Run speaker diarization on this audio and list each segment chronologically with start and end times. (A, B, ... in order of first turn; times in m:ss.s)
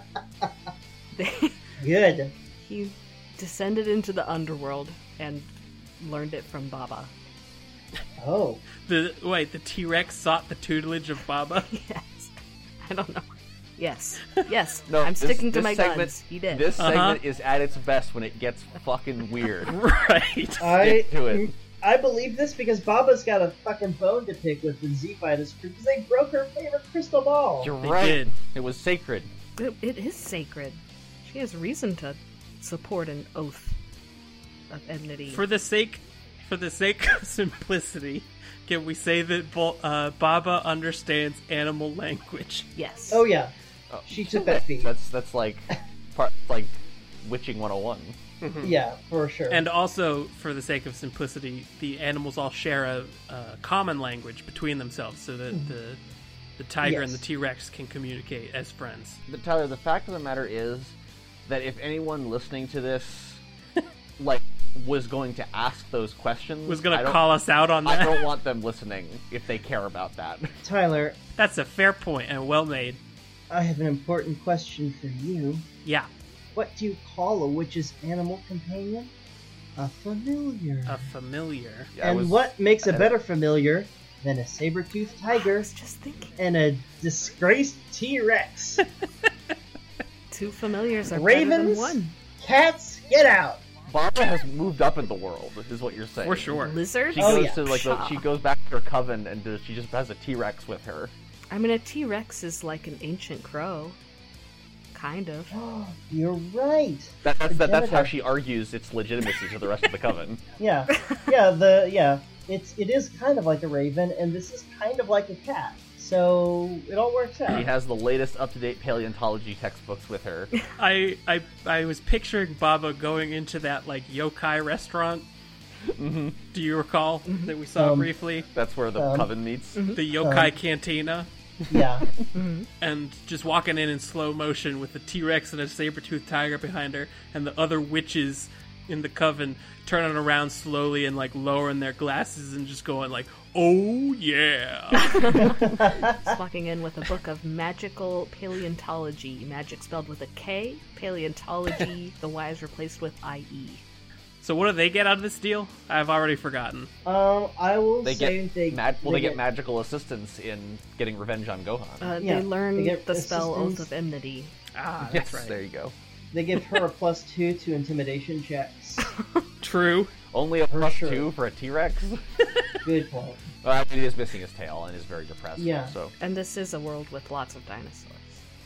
0:01.2-0:01.6 A
0:01.8-0:02.3 B
0:02.6-0:07.1 A
0:08.2-0:08.6 B
0:08.8-0:11.7 C
0:11.7-0:13.2 A
0:13.8-0:16.8 A
0:14.9-0:19.7 D
0:16.8-0:17.2 C
0:19.7-0:20.8 C
0:20.6-0:27.7 B
0:20.8-0:21.5 D
0:27.6-0:29.3 D
0:27.8-0:28.3 C
0:29.6-0:33.8 A
0:34.7-0:35.4 A
0:35.3-0:42.7 C
0:42.8-0:43.2 A
0:43.1-0:43.5 B
0:43.9-0:48.2 D
0:44.1-0:44.9 B
0:48.4-0:48.8 C
0:48.6-0:49.6 B
0:49.5-0:56.0 C
0:56.6-0:59.2 C
0:56.8-0:57.2 B
0:59.3-1:01.0 D
1:01.5-1:03.4 D
1:04.2-1:07.2 D
1:06.7-1:08.3 C
1:07.8-1:10.6 D
1:10.6-1:11.2 B
1:11.4-1:13.0 C
1:13.5-1:15.7 B
1:16.6-1:19.1 B
1:19.8-1:21.0 B
1:20.9-1:21.9 C
1:22.0-1:23.1 D
1:22.0-1:25.7 B
1:25.3-1:26.4 A
1:26.4-1:28.9 B
1:30.3-1:32.2 A
1:31.1-1:33.6 B
1:33.9-1:41.1 D
1:36.2-1:36.8 C
1:36.6-1:38.2 A
1:37.2-1:37.6 B
1:41.5-1:44.0 A
1:44.9-1:45.6 A
1:45.5-1:48.1 B
1:47.2-1:50.4 D
1:50.6-1:57.7 B
1:57.5-2:00.5 D
2:00.8-2:05.3 C
2:05.8-2:06.4 D
2:06.5-2:08.5 C
2:07.3-2:07.5 A
2:07.8-2:08.1 B
2:08.5-2:09.9 D
2:09.0-2:09.3 B
2:09.9-2:11.3 C
2:10.2-2:10.5 B
2:11.7-2:12.1 B
2:12.3-2:12.7 A
2:12.8-2:25.6 C
2:25.0-2:33.8 A
2:25.3-2:26.2 B
2:34.4-2:36.9 C
2:37.0-2:39.4 B
2:38.0-2:42.1 D
2:42.0-2:44.5 A
2:42.2-2:43.9 B
2:44.7-2:45.6 C
2:45.0-2:46.0 D
2:46.3-2:49.1 B
2:49.6-2:50.1 C
2:50.3-2:52.2 D
2:50.7-2:51.3 B
2:52.8-2:53.4 B
2:53.6-2:56.1 D
2:55.6-2:55.9 B
2:56.2-2:58.4 A